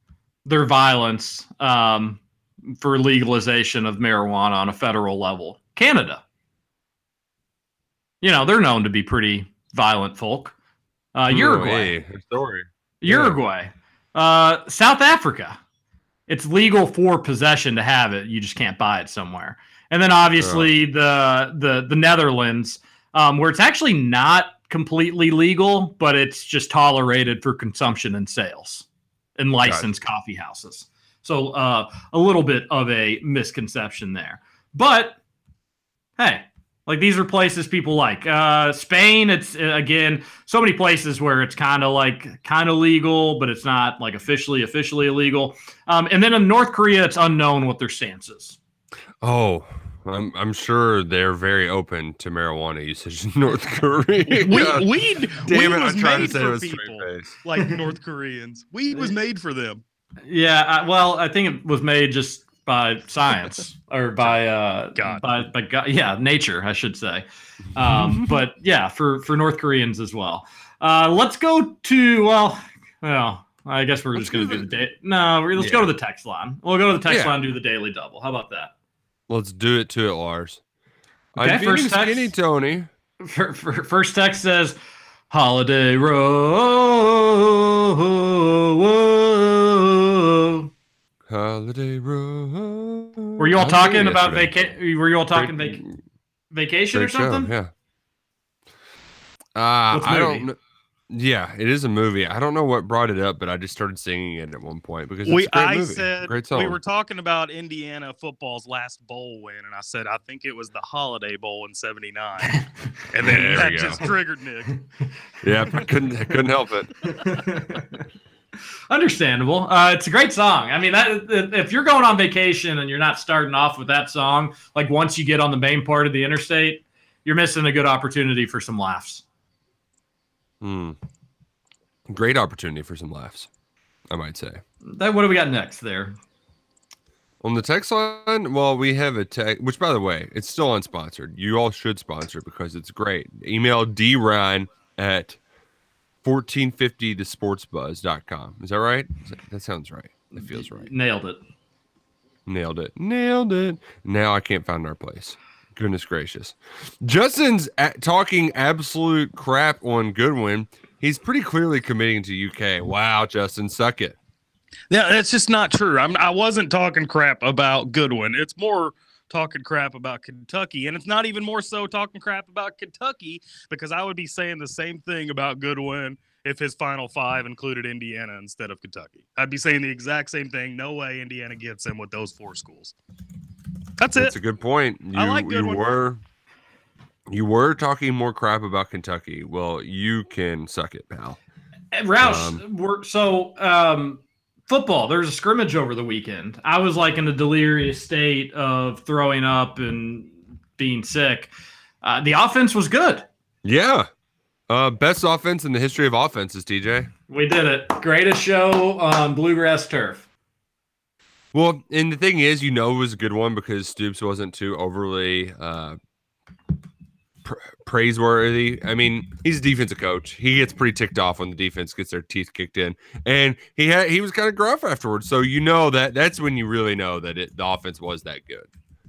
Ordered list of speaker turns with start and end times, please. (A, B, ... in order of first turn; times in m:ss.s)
0:00.5-0:02.2 A
0:02.8-0:06.2 A
0:08.2-0:10.5 A
0:11.1-0:11.9 A
0:11.3-0:13.4 B
0:13.0-0:15.6 A
0:16.3-0:28.8 A
0:20.4-0:20.7 B
0:29.4-0:35.2 A
0:36.2-0:48.6 A
0:49.2-0:54.9 B
0:54.3-0:59.8 C
0:55.4-0:57.3 B
1:00.3-1:18.7 A
1:05.0-1:05.3 C
1:07.9-1:08.2 B
1:14.2-1:14.6 B
1:15.6-1:15.9 B
1:17.1-1:17.4 B
1:19.3-1:20.6 B
1:21.3-1:22.9 B
1:21.4-1:22.3 A
1:23.2-1:24.8 A
1:25.3-1:30.7 A
1:31.3-1:34.6 B
1:33.4-1:35.8 A
1:35.3-1:36.0 B
1:36.5-1:37.5 A
1:36.9-1:37.7 B
1:39.6-1:40.6 B
1:39.9-1:40.5 A
1:41.1-1:46.8 B
1:45.3-1:54.8 C
1:53.2-1:54.1 B
1:55.4-1:57.0 B
1:57.2-1:57.9 A
1:58.9-2:09.2 A
2:10.6-2:11.0 B
2:12.1-2:13.5 B
2:14.1-2:14.6 B
2:14.9-2:16.2 A
2:17.4-2:25.4 B
2:26.2-2:30.9 B
2:30.3-2:31.4 A
2:32.5-2:44.2 B
2:44.9-3:03.0 C
3:04.0-3:04.3 C
3:04.2-3:06.2 B
3:05.1-3:05.8 C
3:07.3-3:11.4 B
3:11.9-3:23.3 A
3:12.2-3:12.6 B
3:23.6-3:24.1 B
3:24.7-3:27.1 B
3:27.3-3:30.2 A
3:31.5-3:36.0 B
3:37.4-3:48.7 B